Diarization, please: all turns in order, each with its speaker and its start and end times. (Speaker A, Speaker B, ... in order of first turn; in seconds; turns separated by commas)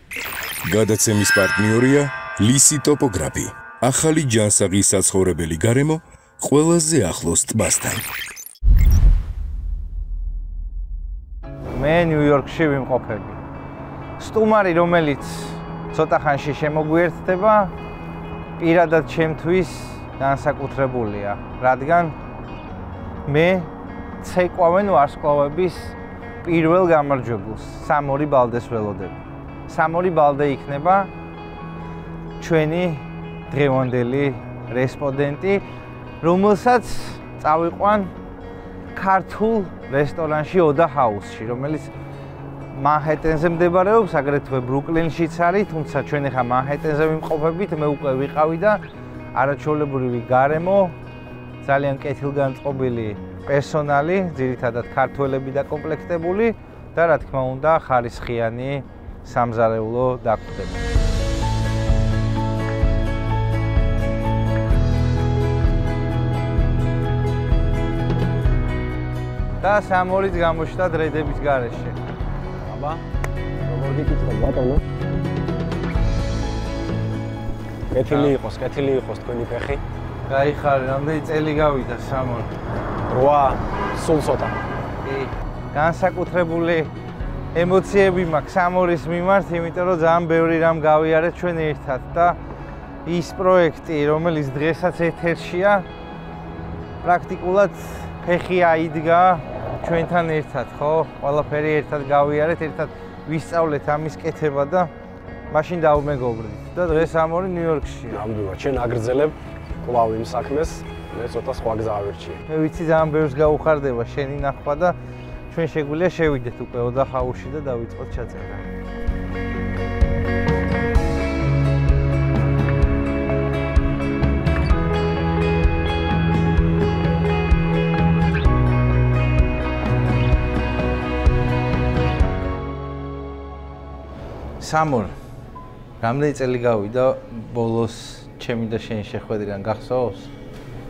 Speaker A: 0.6-8.0, Speaker B: 11.7-13.4, Speaker B: 14.2-17.7, Speaker B: 18.6-22.1, Speaker B: 23.3-23.7, Speaker B: 24.2-31.1, Speaker B: 32.4-35.6, Speaker B: 36.2-38.1, Speaker B: 38.9-41.9, Speaker B: 42.7-48.8, Speaker B: 49.3-50.9, Speaker B: 51.6-60.8, Speaker B: 69.6-72.0, Speaker C: 72.6-73.0, Speaker C: 73.7-74.8, Speaker C: 77.9-79.8, Speaker B: 78.1-78.3, Speaker B: 80.3-82.5, Speaker C: 83.1-84.6, Speaker B: 85.0-86.9, Speaker B: 87.5-92.4, Speaker B: 93.0-95.8, Speaker B: 97.0-104.9, Speaker B: 105.5-108.2, Speaker C: 108.1-112.4, Speaker B: 112.5-115.0, Speaker B: 115.5-118.7, Speaker B: 134.6-135.1, Speaker B: 136.0-140.3